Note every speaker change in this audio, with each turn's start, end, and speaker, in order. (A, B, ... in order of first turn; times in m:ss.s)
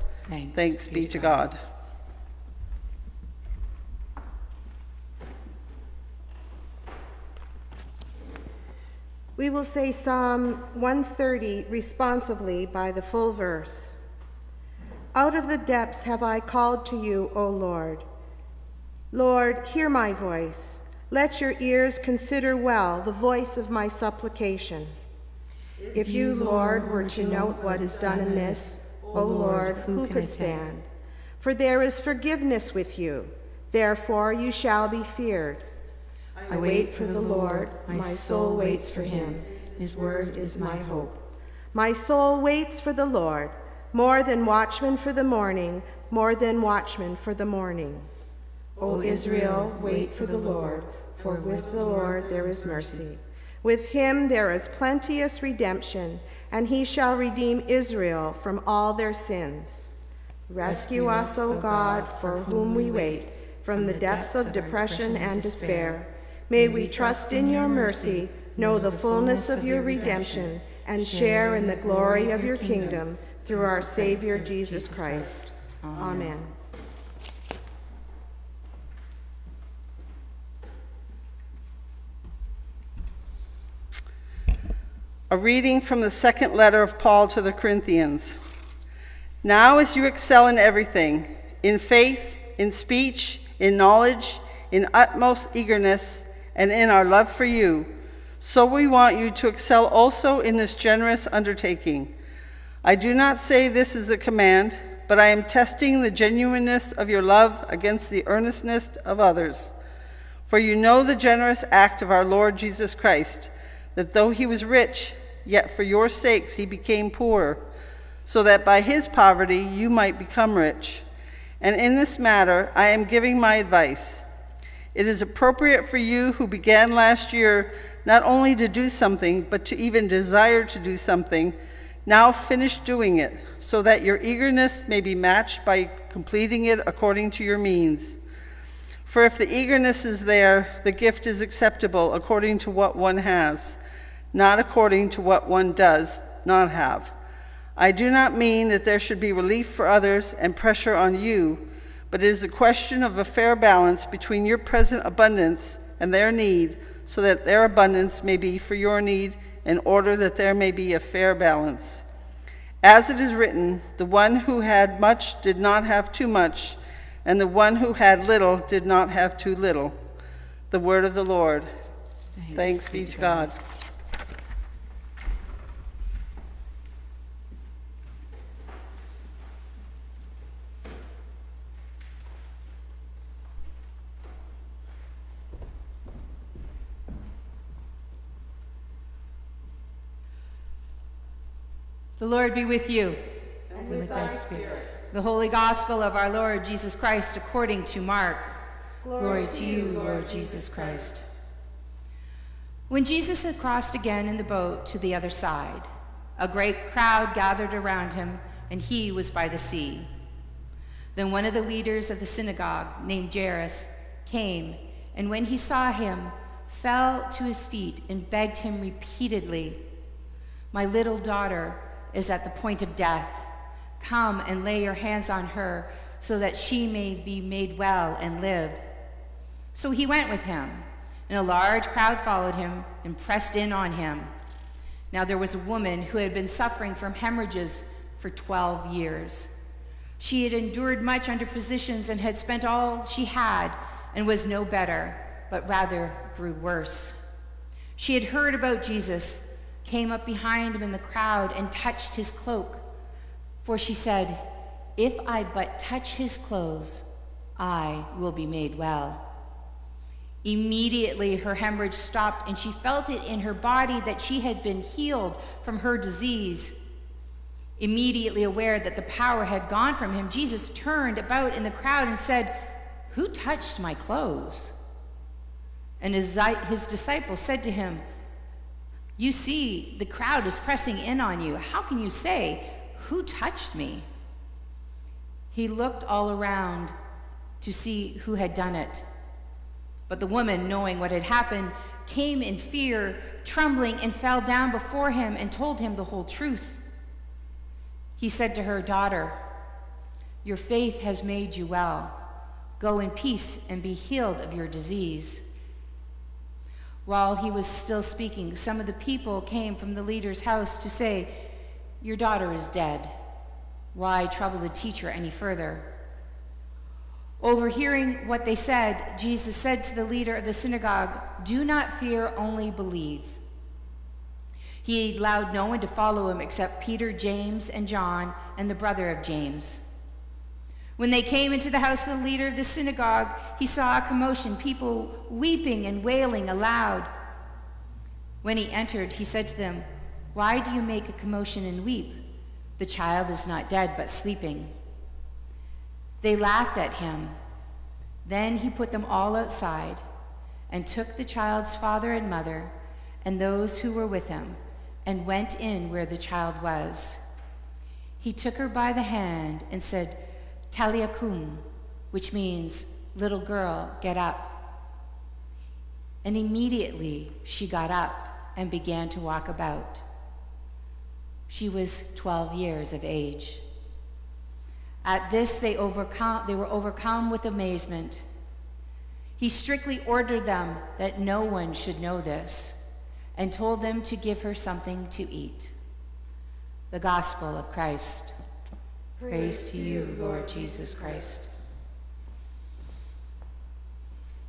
0:00.3-0:01.5 A
0:00.6-0:01.6 B
0:09.4-0:14.0 C
0:15.1-0:18.1 C
0:19.1-0:24.9 C
0:25.9-0:30.7 A
0:25.9-0:30.9 C
0:31.4-0:35.6 C
0:36.5-0:41.2 A
0:36.5-0:41.2 C
0:41.7-0:48.1 C
0:48.8-0:59.9 C
0:48.8-0:53.0 A
1:00.5-1:15.4 C
1:00.6-1:06.0 A
1:06.5-1:16.4 A
1:16.0-1:16.5 C
1:25.3-1:28.4 B
1:29.4-1:42.1 B
1:42.8-1:49.7 B
1:50.5-1:57.6 B
1:58.3-2:01.0 B
2:01.6-2:04.2 B
2:04.9-2:11.6 B
2:12.1-2:18.2 B
2:19.1-2:23.8 B
2:24.3-2:27.1 B
2:27.8-2:42.0 B
2:42.8-2:50.0 B
2:50.7-2:51.7 B
2:52.4-2:53.5 A
2:52.5-2:53.5 B
3:12.2-3:21.2 A
3:19.0-3:20.4 C
3:22.9-3:30.1 A
3:31.2-3:39.8 A
3:40.7-3:48.9 A
3:49.7-3:54.3 A
3:55.1-3:59.5 A
4:00.2-4:07.2 A
4:08.0-4:12.9 A
4:13.6-4:17.0 A
4:17.6-4:19.3 A
4:20.4-4:26.8 A
4:27.8-4:34.7 A
4:36.0-4:38.0 A
4:39.2-4:44.1 A
4:45.5-4:46.9 A
4:47.6-4:49.1 A
4:50.1-4:56.8 A
4:58.2-4:59.4 A
5:00.4-5:02.2 A
5:02.8-5:05.4 A
5:07.1-5:13.2 A
5:13.9-5:15.9 A
5:17.4-5:23.4 A
5:24.8-5:29.8 A
5:31.0-5:37.1 A
5:38.4-5:42.2 A
5:42.8-5:44.7 A
5:46.2-5:47.4 A
5:48.2-5:50.0 A
5:50.7-5:57.2 A
5:58.2-6:04.6 A
6:06.2-6:10.0 A
6:11.5-6:13.6 A
6:15.0-6:18.3 A
6:19.4-6:22.8 A
6:23.4-6:25.8 A
6:26.9-6:28.3 A
6:29.2-6:31.5 A